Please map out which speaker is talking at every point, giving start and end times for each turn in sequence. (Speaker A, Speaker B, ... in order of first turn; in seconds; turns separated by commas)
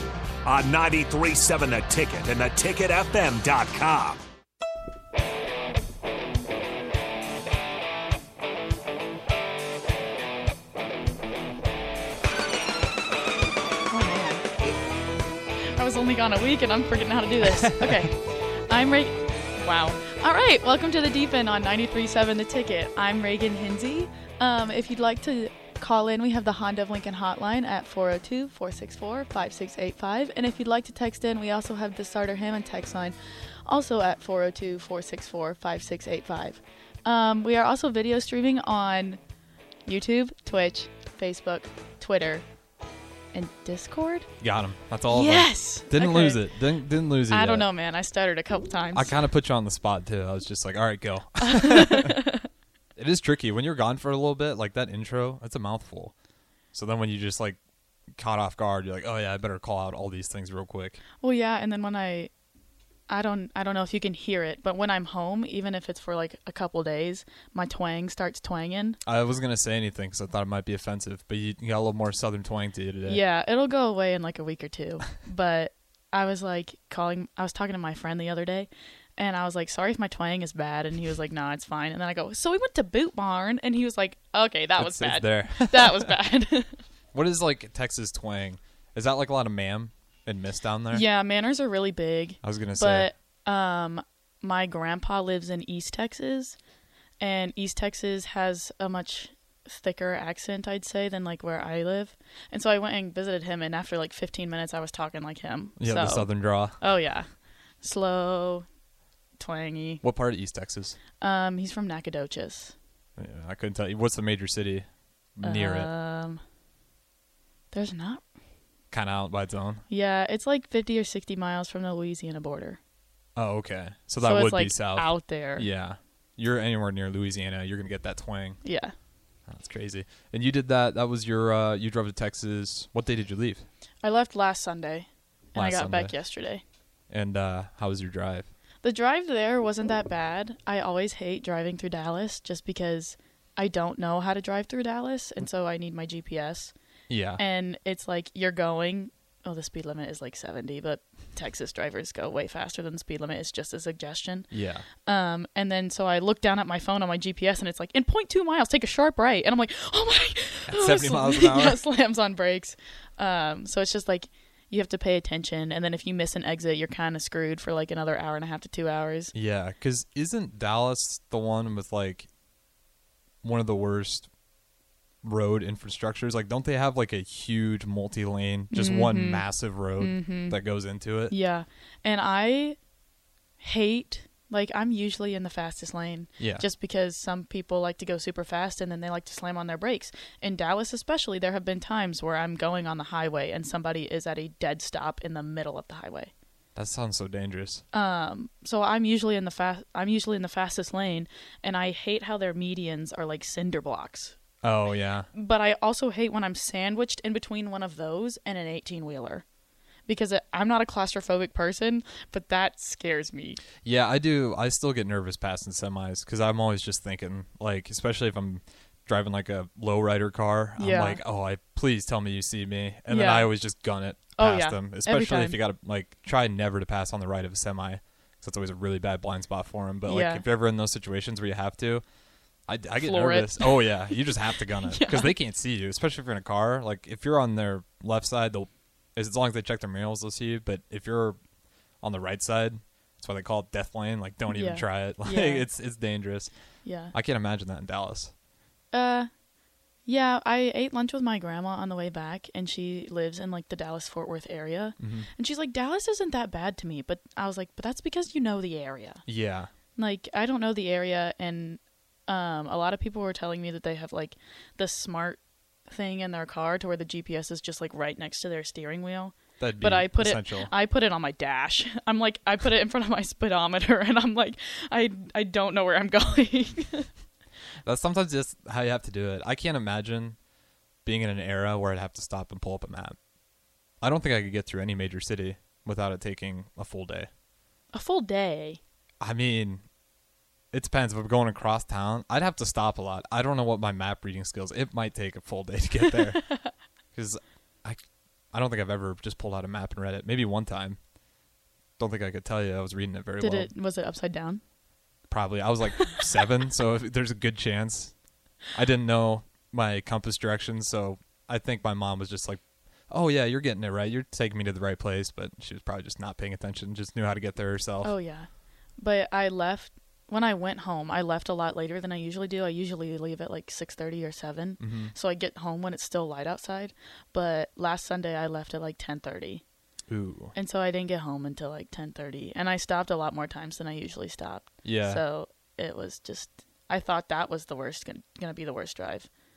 Speaker A: 0.5-4.2, Speaker B: 13.9-14.5, Speaker B: 15.6-39.2, Speaker C: 17.6-18.0, Speaker B: 39.9-42.5, Speaker B: 43.3-44.3, Speaker C: 44.4-47.7, Speaker B: 45.1-46.5, Speaker B: 47.3-49.1, Speaker C: 48.9-52.2, Speaker B: 51.4-52.5, Speaker C: 53.0-56.1, Speaker C: 56.7-57.6, Speaker C: 58.1-61.0, Speaker B: 61.2-62.3, Speaker B: 63.1-69.0, Speaker C: 69.1-73.2, Speaker B: 73.0-86.8, Speaker C: 84.8-86.1, Speaker C: 87.1-91.0, Speaker B: 90.9-96.6, Speaker C: 92.4-93.1, Speaker B: 97.2-107.3, Speaker C: 105.8-106.8, Speaker B: 107.8-108.7, Speaker B: 109.4-110.0, Speaker C: 110.0-111.0, Speaker B: 111.2-112.8, Speaker C: 113.2-115.9, Speaker B: 115.4-116.4, Speaker B: 117.7-118.2, Speaker C: 118.9-119.8, Speaker B: 119.9-122.8, Speaker C: 123.4-128.6, Speaker B: 124.2-125.7, Speaker B: 128.6-128.9, Speaker C: 129.5-133.7, Speaker B: 134.0-136.6, Speaker C: 135.6-136.1, Speaker C: 137.1-138.5, Speaker B: 138.8-146.7, Speaker C: 147.1-147.4, Speaker B: 147.4-154.5, Speaker C: 154.5-154.9, Speaker B: 155.1-169.3, Speaker C: 160.7-161.8, Speaker C: 169.3-172.3, Speaker C: 173.4-174.3, Speaker C: 175.2-181.3, Speaker B: 178.7-179.5, Speaker B: 180.0-180.6, Speaker B: 181.3-182.8, Speaker B: 183.6-196.3, Speaker C: 186.4-186.7, Speaker C: 196.8-197.8, Speaker B: 197.9-204.4, Speaker C: 204.6-205.3, Speaker B: 205.3-209.4, Speaker B: 210.1-213.6, Speaker C: 213.8-232.0, Speaker B: 220.8-221.2, Speaker B: 223.1-223.5, Speaker B: 224.4-225.6, Speaker B: 230.1-230.4, Speaker C: 232.7-241.4, Speaker B: 233.0-235.3, Speaker C: 242.0-246.5, Speaker B: 244.5-245.7, Speaker B: 246.8-247.1, Speaker C: 247.1-248.3, Speaker B: 248.9-249.3, Speaker B: 250.1-259.2, Speaker C: 255.0-255.3, Speaker C: 259.3-259.7, Speaker B: 260.0-277.1, Speaker C: 269.6-270.7, Speaker C: 277.8-280.4, Speaker C: 281.0-283.2, Speaker C: 284.0-287.3, Speaker B: 287.9-288.8, Speaker C: 289.2-289.8, Speaker C: 290.7-296.6, Speaker C: 297.1-301.0, Speaker C: 302.0-303.7, Speaker B: 303.4-304.6, Speaker C: 305.3-308.1, Speaker C: 308.7-318.1, Speaker B: 318.0-329.6, Speaker C: 324.8-325.1, Speaker C: 330.1-330.5, Speaker B: 330.6-339.3, Speaker C: 334.8-335.2